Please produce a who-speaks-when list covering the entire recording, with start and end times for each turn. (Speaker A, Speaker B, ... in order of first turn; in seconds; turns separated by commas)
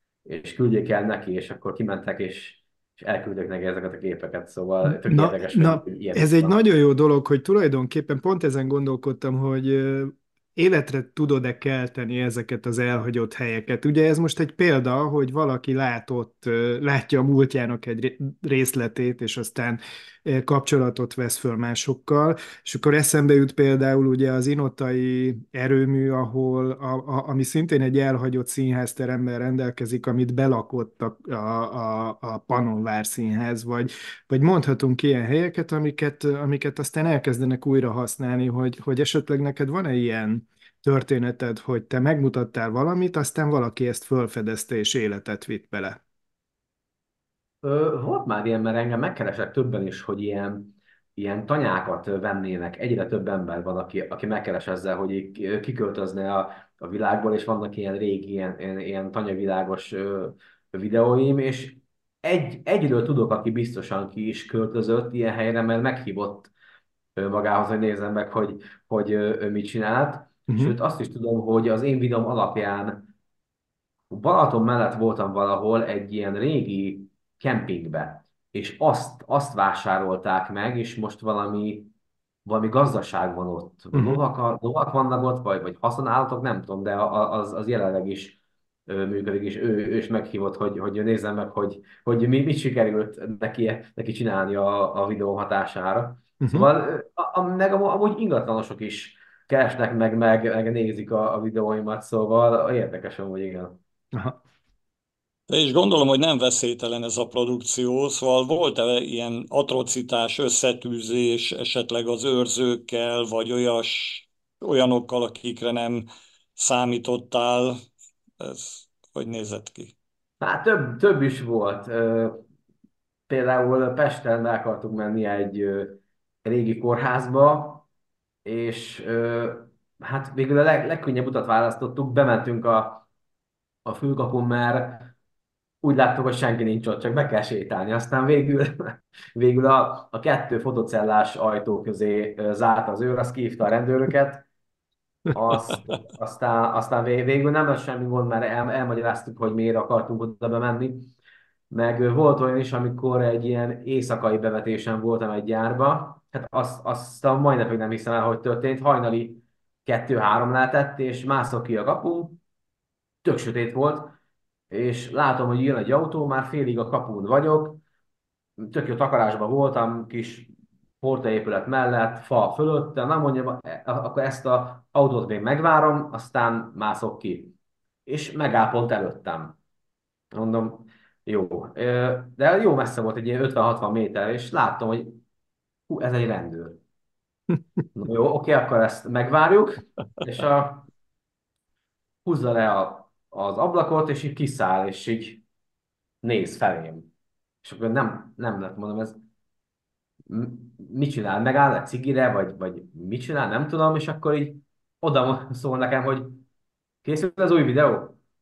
Speaker A: 0.2-6.6, Speaker B: 4.8-46.0, Speaker A: 47.6-66.5, Speaker A: 67.2-73.1, Speaker B: 70.5-70.7, Speaker A: 74.1-81.9, Speaker A: 82.4-103.8, Speaker B: 83.9-84.2, Speaker B: 96.4-96.7, Speaker B: 104.1-104.4, Speaker C: 105.5-117.8, Speaker C: 118.4-119.9, Speaker A: 120.4-122.4, Speaker A: 123.3-127.8, Speaker A: 128.4-133.0, Speaker A: 133.8-135.1, Speaker A: 135.8-144.4, Speaker A: 145.3-151.1, Speaker A: 151.7-162.4, Speaker A: 163.2-164.1, Speaker A: 164.7-167.8, Speaker A: 168.6-170.5, Speaker A: 171.0-177.5, Speaker A: 178.1-179.6, Speaker A: 180.3-185.2, Speaker A: 185.9-186.8, Speaker A: 187.9-190.9, Speaker A: 192.2-195.4, Speaker A: 196.2-197.1, Speaker A: 197.6-199.1, Speaker A: 200.3-206.4, Speaker A: 207.0-208.2